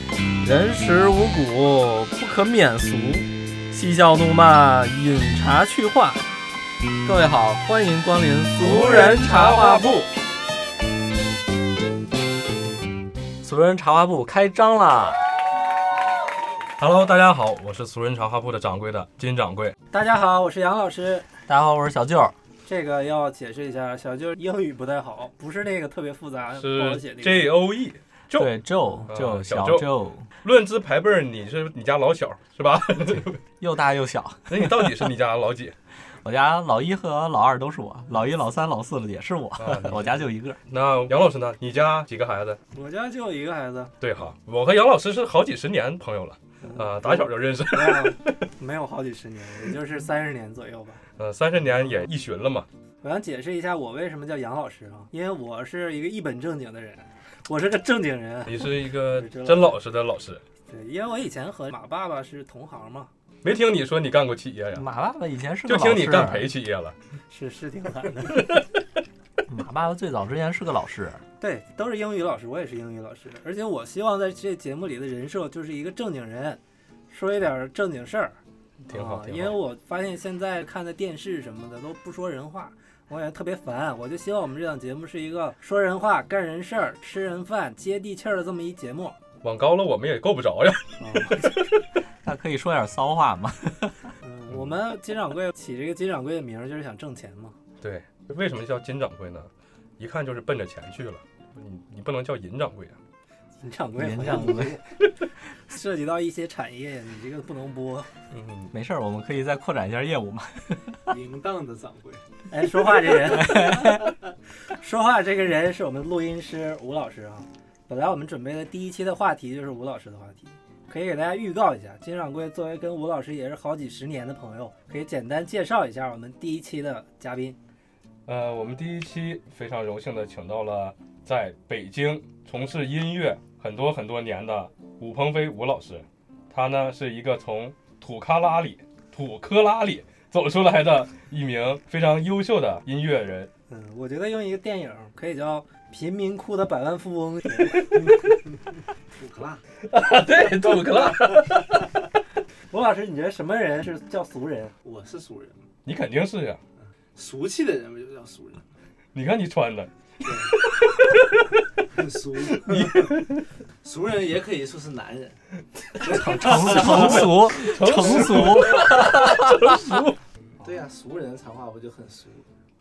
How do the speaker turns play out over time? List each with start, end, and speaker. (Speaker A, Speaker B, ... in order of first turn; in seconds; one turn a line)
Speaker A: 0.4-6.1
Speaker A: 7.0-10.1
Speaker B: 8.7-9.7
Speaker C: 9.2-9.6
Speaker A: 13.4-15.2
Speaker B: 16.8-19.7
Speaker C: 19.9-21.3
Speaker A: 21.5-22.3
Speaker C: 22.6-27.5
Speaker B: 26.6-28.5
Speaker A: 28.3-30.3
Speaker B: 29.1-29.9
Speaker B: 30.4-33.4
Speaker A: 33.6-35.1
Speaker B: 34.5-35.8
Speaker A: 36.0-40.6
Speaker B: 39.6-42.6
Speaker C: 42.7-43.9
Speaker B: 44.0-48.4
Speaker C: 46.6-51.0
Speaker B: 51.2-52.7
Speaker C: 51.7-52.0
Speaker C: 53.0-59.8
Speaker B: 58.4-60.4
Speaker C: 60.7-63.1
Speaker B: 63.4-64.8
Speaker A: 64.7-66.5
Speaker B: 65.6-66.9
Speaker C: 67.3-68.6
Speaker A: 69.5-71.2
Speaker C: 71.4-78.3
Speaker B: 78.8-79.6
Speaker C: 78.9-89.2
Speaker B: 89.4-91.5
Speaker C: 91.0-91.4
Speaker A: 92.2-94.1
Speaker C: 94.2-97.6
Speaker B: 97.8-103.0
Speaker C: 103.6-105.0
Speaker A: 104.0-104.8
Speaker C: 105.6-108.1
Speaker B: 108.3-108.7
Speaker A: 108.7-111.2
Speaker D: 111.1-112.2
Speaker C: 112.5-114.1
Speaker A: 113.3-114.1
Speaker C: 114.7-127.6
Speaker B: 128.2-143.5
Speaker C: 143.7-147.8
Speaker D: 147.9-148.6
Speaker D: 149.2-149.6
Speaker B: 149.9-151.8
Speaker C: 152.7-154.7
Speaker D: 154.8-155.7
Speaker B: 155.8-156.6
Speaker D: 157.1-158.6
Speaker B: 159.1-159.9
Speaker D: 160.2-160.5
Speaker B: 160.4-161.5
Speaker D: 161.9-163.2
Speaker B: 162.5-163.4
Speaker D: 163.8-165.4
Speaker D: 166.0-167.4
Speaker A: 166.0-169.6
Speaker B: 166.4-170.2
Speaker D: 170.6-172.4